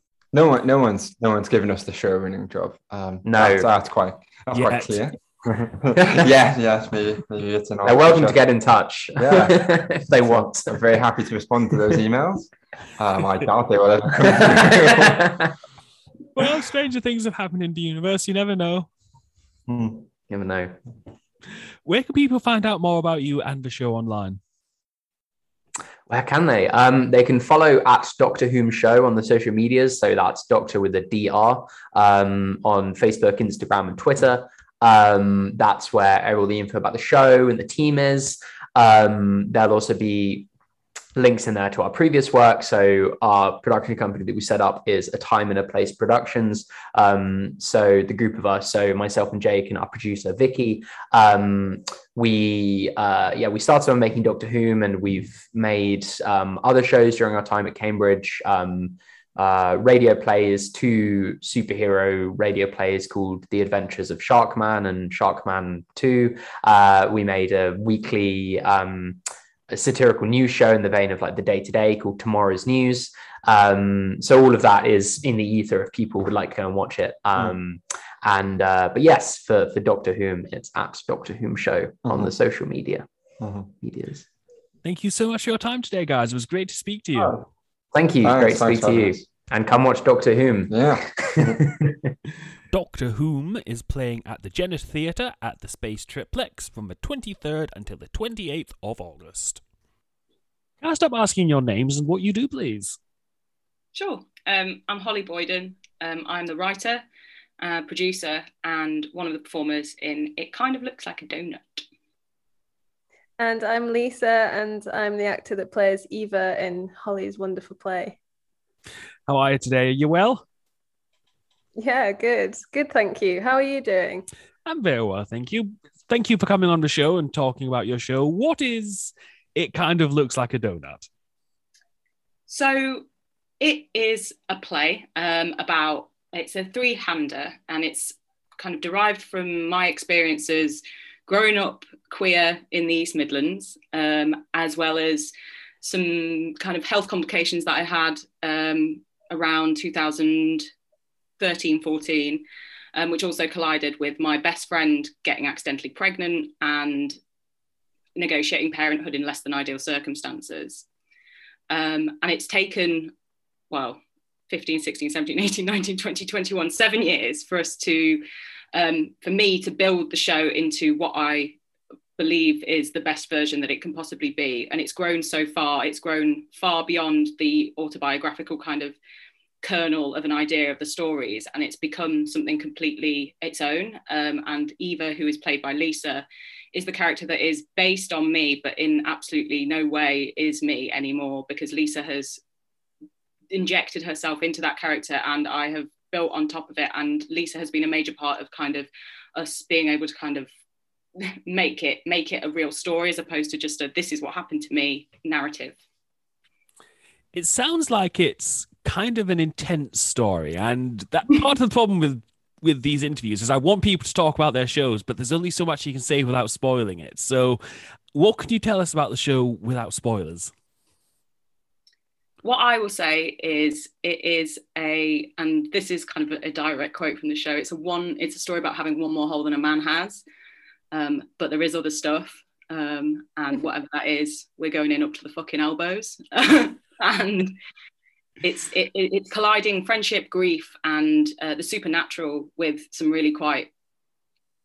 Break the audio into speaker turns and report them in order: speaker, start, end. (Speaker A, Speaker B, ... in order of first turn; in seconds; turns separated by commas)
Speaker A: 0.3-5.2, Speaker B: 3.2-3.7, Speaker C: 4.5-5.1, Speaker B: 5.5-6.3, Speaker A: 5.7-8.4, Speaker B: 7.8-10.8, Speaker A: 9.2-15.3, Speaker B: 14.2-15.5, Speaker C: 16.3-18.9, Speaker A: 19.7-20.0, Speaker B: 20.3-20.8, Speaker C: 21.8-24.4, Speaker B: 26.1-40.5, Speaker B: 41.1-69.2, Speaker B: 69.7-83.0, Speaker A: 83.4-83.7, Speaker B: 83.8-84.2, Speaker C: 84.8-87.3, Speaker A: 87.2-87.4, Speaker B: 87.9-92.1, Speaker A: 88.2-89.3, Speaker A: 90.7-91.6, Speaker C: 92.7-99.6, Speaker C: 100.8-103.0, Speaker D: 103.9-107.0, Speaker D: 107.6-111.8, Speaker E: 113.4-118.2, Speaker C: 119.3-120.4, Speaker E: 121.8-124.2, Speaker C: 124.7-131.1, Speaker D: 132.5-133.0, Speaker D: 133.6-150.7, Speaker D: 151.4-152.4, Speaker D: 152.9-157.2, Speaker D: 158.2-160.8, Speaker D: 161.7-163.1, Speaker D: 163.7-171.6, Speaker D: 172.2-178.9, Speaker D: 179.6-192.4, Speaker D: 193.5-200.5, Speaker D: 201.2-205.8, Speaker C: 207.3-217.6, Speaker C: 218.1-220.5, Speaker D: 222.4-230.2, Speaker D: 230.9-237.6, Speaker D: 238.4-243.7